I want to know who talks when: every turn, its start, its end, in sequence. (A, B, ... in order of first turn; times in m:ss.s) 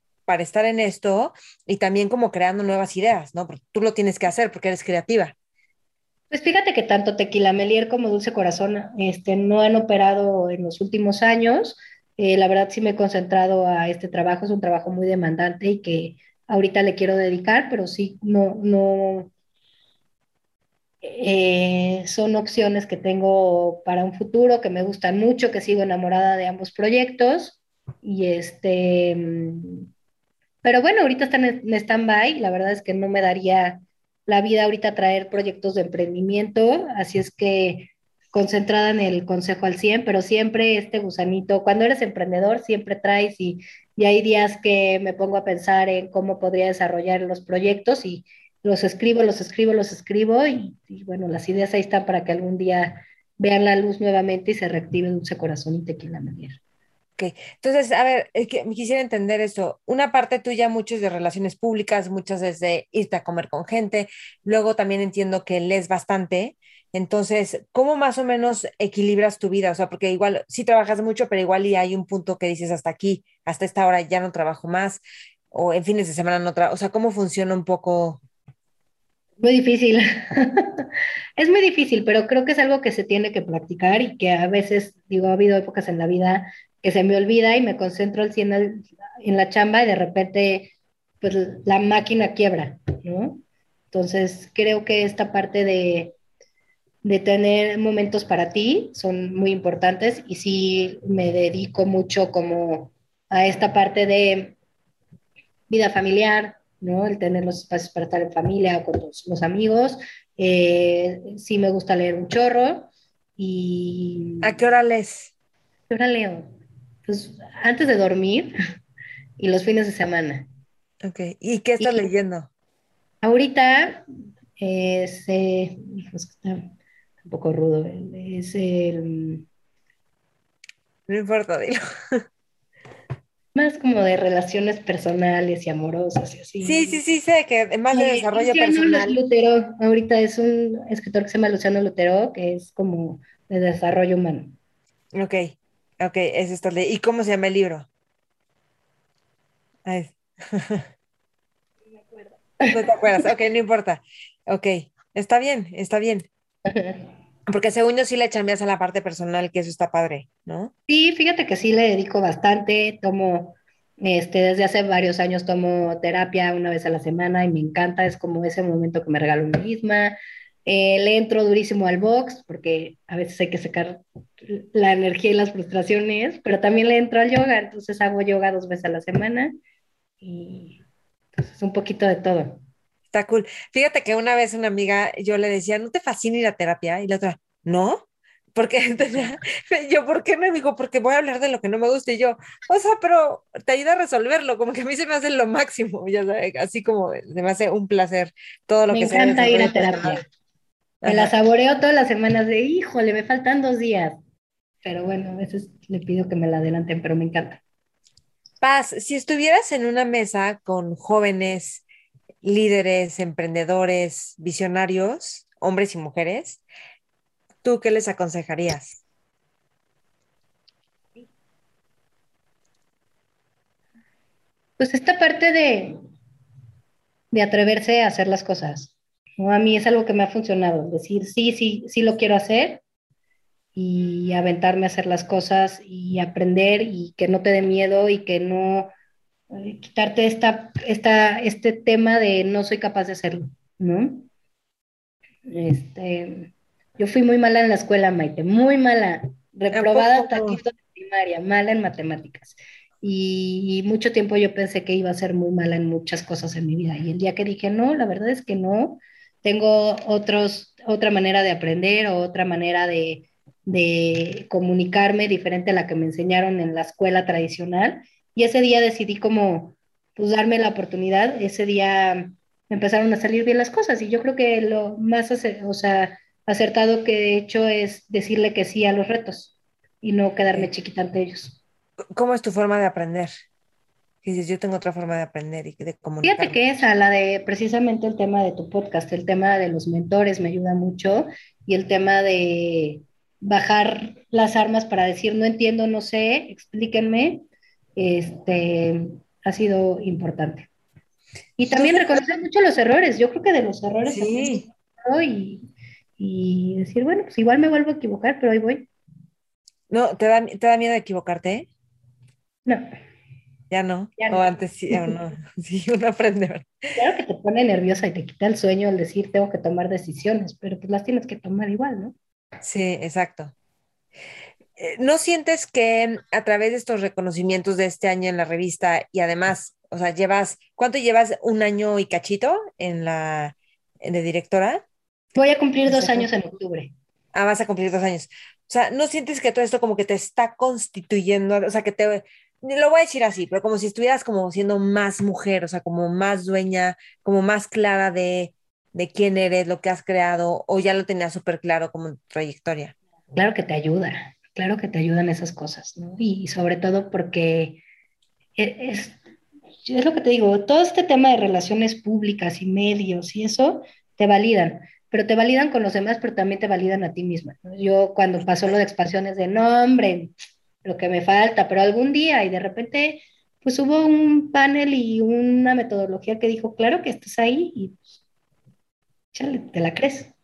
0:00.3-0:05.3 A
0:06.3-0:19.3 B
0:21.0-0:29.8 B
0:30.6-0:56.6 B
0:57.2-1:18.2 A
1:19.4-1:36.2 B
1:37.0-1:44.6 B
1:45.7-1:54.6 B
1:54.4-1:55.3 A
1:55.9-1:56.5 B
1:57.1-1:58.5 B
1:59.4-2:00.5 B
2:01.0-2:02.5 A
2:01.8-2:02.0 B
2:03.2-2:04.0 B
2:04.6-2:06.7 B
2:07.2-2:09.4 B
2:11.1-2:12.2 A
2:13.5-2:17.0 B
2:16.6-2:19.2 A
2:17.9-2:24.6 B
2:25.1-2:27.9 A
2:29.8-2:30.9 A
2:32.0-2:33.3 B
2:32.7-2:36.3 A
2:36.7-2:37.0 B
2:37.5-2:40.7 A
2:40.9-2:59.6 B
3:00.2-3:00.8 B
3:01.4-3:02.6 B
3:03.1-3:20.2 A
3:18.9-3:20.2 B
3:21.0-3:21.3 A
3:21.0-3:24.2 B
3:24.8-3:27.6 B
3:28.6-3:31.8 A
3:32.4-3:36.6 A
3:37.6-3:39.0 A
3:44.8-3:46.0 B
3:47.3-3:52.8 B
3:53.8-3:58.9 B
3:59.5-4:04.3 B
4:05.5-4:41.6 B
4:09.7-4:10.6 A
4:42.1-4:43.3 A
4:44.2-4:46.6 A
4:46.2-4:57.4 B
4:58.0-5:00.7 B
5:01.6-5:05.7 B
5:01.7-5:02.3 A
5:04.1-5:04.6 A
5:06.2-5:08.9 B
5:09.9-5:11.7 A
5:13.7-5:16.7 A
5:14.2-5:15.1 B
5:17.0-5:22.1 B
5:22.6-5:23.5 A
5:24.8-5:34.8 A
5:35.4-5:36.9 B
5:35.9-5:36.3 A
5:37.3-5:52.9 A
5:53.3-5:57.8 B
5:58.6-5:59.2 B
5:59.8-6:10.3 B
6:10.8-6:18.2 B
6:19.3-6:20.3 B